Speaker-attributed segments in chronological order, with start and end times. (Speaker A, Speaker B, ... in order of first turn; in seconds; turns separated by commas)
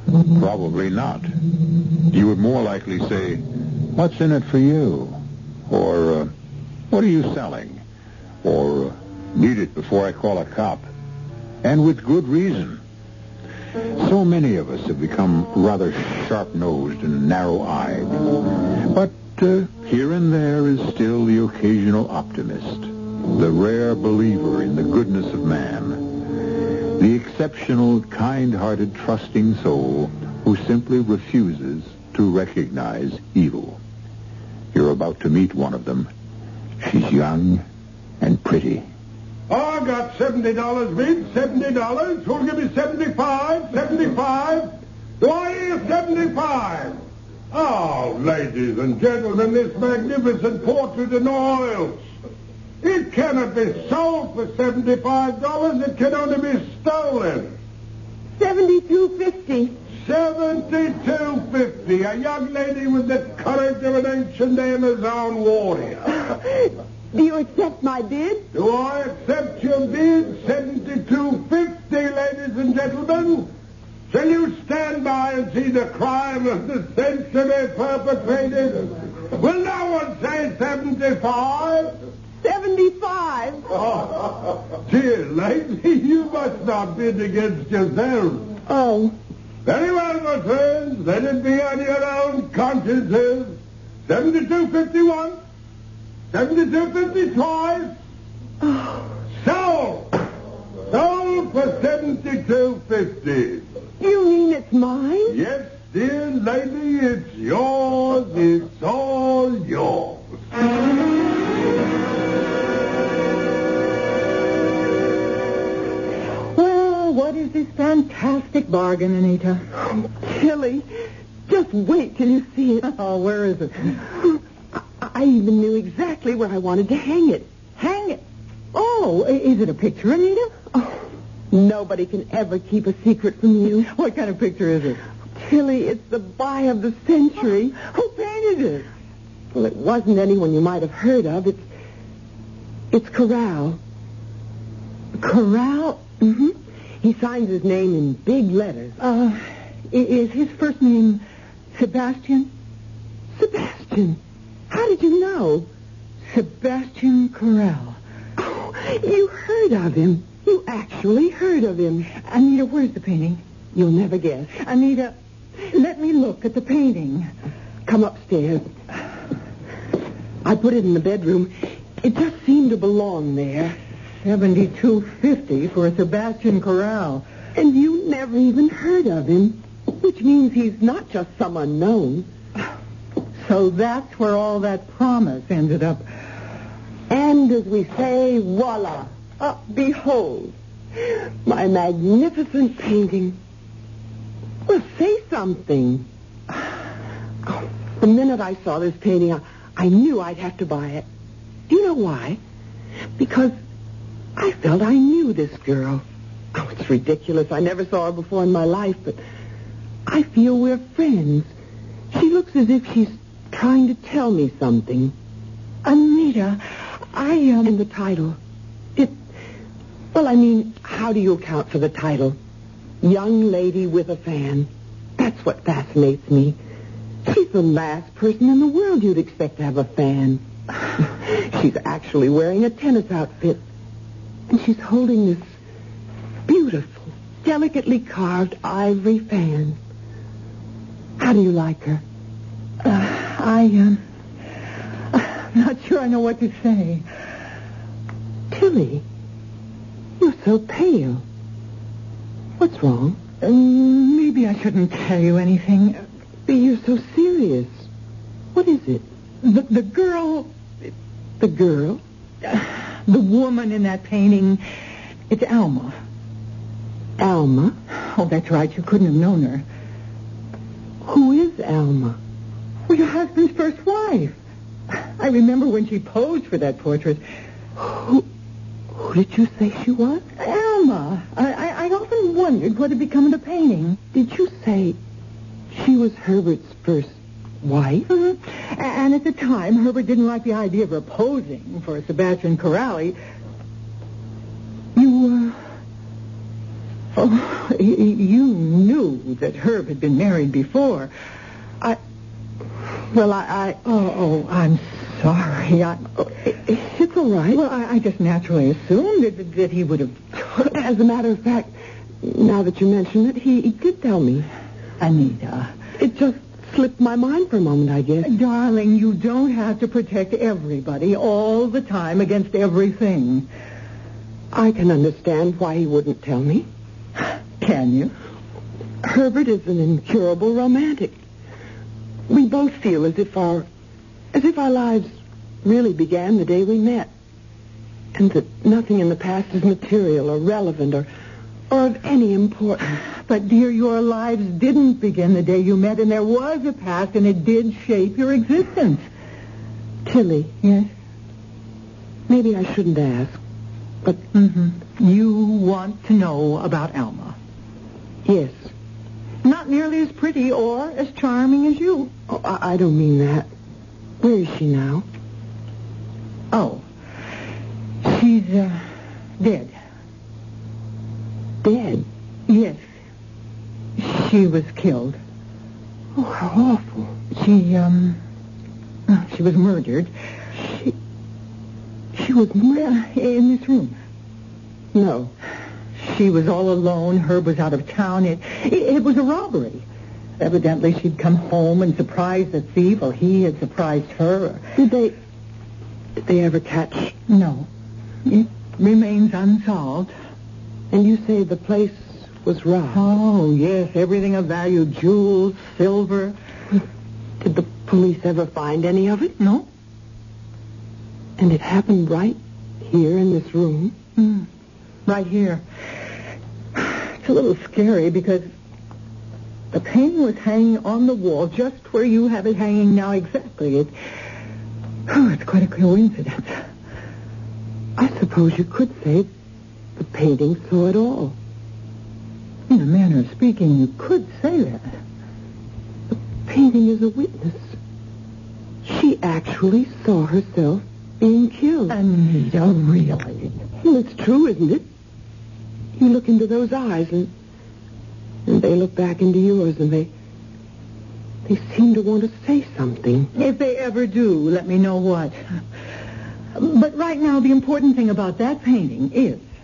Speaker A: 0.3-1.3, Speaker A: 2.1-6.3, Speaker A: 6.9-7.8, Speaker A: 8.4-10.9, Speaker A: 11.6-12.8, Speaker A: 13.9-33.8, Speaker A: 34.7-36.1, Speaker A: 36.8-37.7, Speaker A: 38.2-38.9, Speaker B: 39.5-52.0, Speaker B: 52.8-57.6, Speaker C: 58.4-59.8, Speaker B: 60.0-66.3, Speaker C: 66.3-68.5, Speaker B: 68.5-73.5, Speaker B: 74.1-82.0, Speaker C: 82.4-83.7, Speaker B: 83.7-88.5, Speaker C: 88.7-89.2, Speaker B: 89.7-95.4, Speaker B: 96.3-98.0, Speaker C: 98.6-99.1, Speaker B: 99.4-100.2, Speaker B: 100.9-103.7, Speaker C: 104.0-105.4, Speaker B: 105.3-110.2, Speaker D: 116.5-119.6, Speaker C: 120.2-120.9, Speaker C: 121.5-122.9, Speaker D: 122.8-124.0, Speaker C: 124.7-127.5, Speaker D: 127.8-128.2, Speaker D: 128.7-130.6, Speaker C: 131.5-133.9, Speaker D: 133.8-135.0, Speaker C: 135.4-137.8, Speaker D: 137.8-138.9, Speaker C: 139.5-141.7, Speaker C: 142.9-143.8, Speaker D: 145.2-146.1, Speaker C: 146.2-149.0, Speaker D: 149.0-151.2, Speaker D: 151.7-152.5, Speaker C: 153.4-155.7, Speaker D: 156.3-158.0, Speaker C: 158.4-162.1, Speaker D: 162.2-163.4, Speaker C: 163.7-164.6, Speaker D: 164.6-167.3, Speaker C: 167.9-168.7, Speaker C: 170.4-173.8, Speaker D: 174.2-177.2, Speaker C: 177.6-182.3, Speaker D: 183.4-186.1, Speaker C: 187.1-193.4, Speaker C: 194.7-196.1, Speaker C: 197.4-201.1, Speaker C: 201.7-202.4, Speaker C: 203.2-203.6, Speaker C: 204.4-209.2, Speaker C: 210.1-211.5, Speaker C: 212.1-215.2, Speaker D: 215.8-217.7, Speaker C: 217.7-218.4, Speaker C: 220.1-222.4, Speaker C: 223.0-226.6, Speaker C: 227.2-230.4, Speaker C: 231.0-233.6, Speaker C: 234.5-235.5, Speaker C: 236.5-239.8, Speaker C: 241.2-242.0, Speaker D: 242.8-244.0, Speaker D: 245.1-247.1, Speaker C: 248.5-249.0, Speaker C: 250.2-251.2, Speaker C: 252.6-253.2, Speaker D: 253.4-256.1, Speaker C: 256.5-257.9, Speaker C: 258.6-259.0, Speaker D: 259.4-260.5, Speaker C: 261.4-262.0, Speaker D: 262.5-264.6, Speaker D: 265.3-266.0, Speaker C: 267.2-267.8, Speaker D: 268.0-269.6, Speaker C: 271.0-272.2, Speaker D: 272.9-274.4, Speaker D: 275.2-277.2, Speaker C: 277.8-278.3, Speaker C: 278.9-280.2, Speaker D: 280.4-284.0, Speaker C: 284.1-285.0, Speaker C: 285.7-288.1, Speaker D: 288.1-293.2, Speaker D: 294.9-295.6, Speaker D: 297.2-301.1, Speaker D: 303.1-306.1, Speaker C: 306.4-307.6, Speaker D: 307.5-310.2, Speaker C: 310.4-314.5, Speaker D: 315.0-315.7, Speaker C: 316.0-318.3, Speaker D: 318.2-323.5, Speaker C: 324.5-326.7, Speaker D: 327.6-328.1, Speaker C: 329.0-331.1, Speaker C: 332.3-333.7, Speaker C: 334.3-337.1, Speaker C: 338.1-341.1, Speaker C: 341.7-343.0, Speaker D: 343.2-349.1, Speaker C: 350.1-350.5, Speaker D: 350.6-350.9, Speaker C: 352.3-353.4, Speaker D: 354.3-357.4, Speaker C: 358.2-358.7, Speaker D: 359.4-362.1, Speaker C: 362.3-363.5, Speaker C: 364.2-365.1, Speaker D: 366.5-366.9, Speaker D: 368.0-368.9, Speaker D: 369.4-369.7, Speaker C: 371.6-372.1, Speaker D: 372.5-372.8, Speaker D: 374.0-375.2, Speaker C: 376.2-377.1, Speaker D: 377.3-378.2, Speaker D: 379.1-380.1, Speaker C: 382.1-382.8, Speaker D: 382.8-384.0, Speaker C: 384.9-385.3, Speaker D: 386.0-389.9, Speaker D: 390.4-394.7, Speaker C: 394.8-395.1, Speaker C: 396.2-397.2, Speaker D: 397.3-397.7, Speaker D: 398.3-400.1, Speaker C: 400.9-403.1, Speaker D: 402.9-406.4, Speaker C: 407.4-409.4, Speaker D: 409.4-409.7, Speaker C: 411.4-414.0, Speaker D: 414.2-414.5, Speaker D: 415.1-415.6, Speaker D: 416.8-418.5, Speaker D: 419.7-423.9, Speaker D: 425.1-426.6, Speaker C: 428.0-429.3, Speaker C: 430.0-431.4, Speaker D: 432.7-434.9, Speaker C: 436.1-437.8, Speaker C: 438.8-442.0, Speaker D: 441.9-443.6, Speaker C: 443.8-444.9, Speaker C: 446.0-447.3, Speaker C: 448.5-450.1, Speaker C: 451.5-453.3, Speaker D: 453.4-455.4, Speaker D: 456.6-459.5